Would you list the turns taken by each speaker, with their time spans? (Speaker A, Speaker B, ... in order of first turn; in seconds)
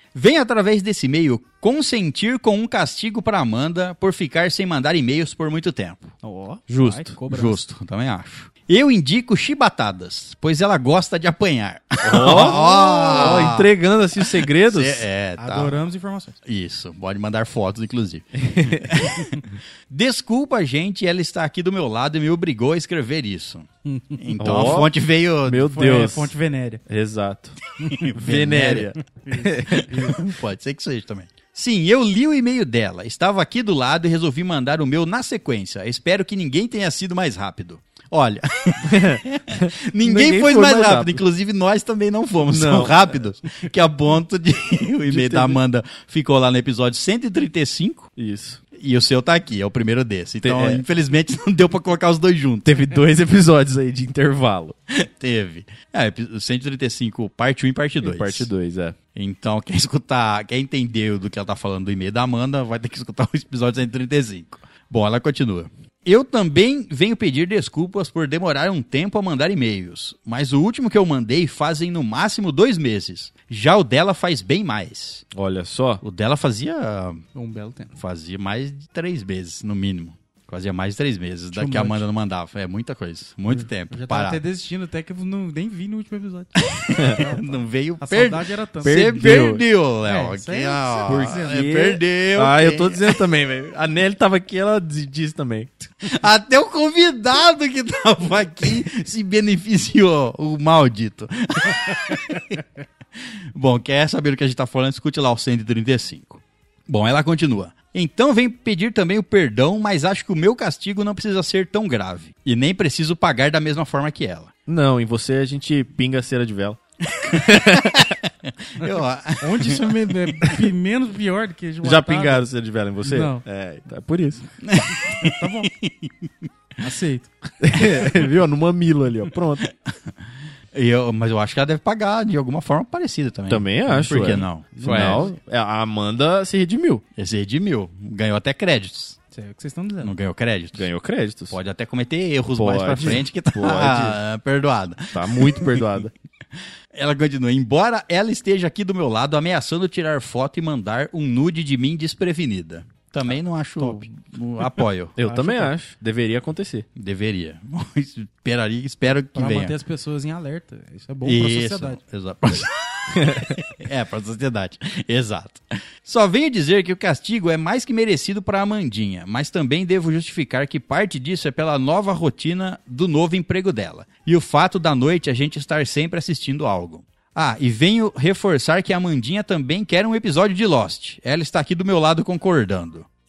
Speaker A: 0.1-6.1, 7.3-15.8, 16.5-25.7, 28.1-28.9, 30.0-48.1, 48.7-52.8, 54.9-58.5, 59.1-75.2, 76.0-77.2, 78.0-84.4, 86.7-93.2, 96.0-102.6, 103.2-114.5, 117.1-120.0, 124.6-126.3, 129.6-130.1, 130.7-135.3, 137.2-139.2, 140.0-140.9, 141.5-146.0, 146.9-155.2, 157.0-159.7, 161.2-183.1
Speaker B: 6.2-7.6, 12.1-13.1, 15.4-16.4, 23.9-24.3, 25.6-26.8, 27.8-28.1, 28.8-30.2, 77.3-78.0, 81.5-82.0, 83.5-89.3, 90.0-91.6, 119.4-122.5, 123.0-123.4, 125.0-125.7, 126.8-127.3, 134.8-135.3, 139.3-140.1, 155.2-155.7, 159.3-162.0
Speaker C: 6.7-7.1, 12.0-15.1, 18.4-18.9, 24.4-24.9, 25.4-26.3, 26.9-27.6, 28.1-30.1, 38.8-41.2, 42.5-43.0, 45.1-45.6, 48.2-48.6, 50.4-50.8, 52.6-54.8, 58.0-59.0, 75.3-76.0, 86.9-87.2, 88.8-89.6, 91.1-95.7, 114.7-118.1, 121.8-124.4, 127.6-129.7, 133.5-137.0, 140.8-141.6, 142.6-144.2, 145.1-146.1, 155.2-156.9, 163.1-163.5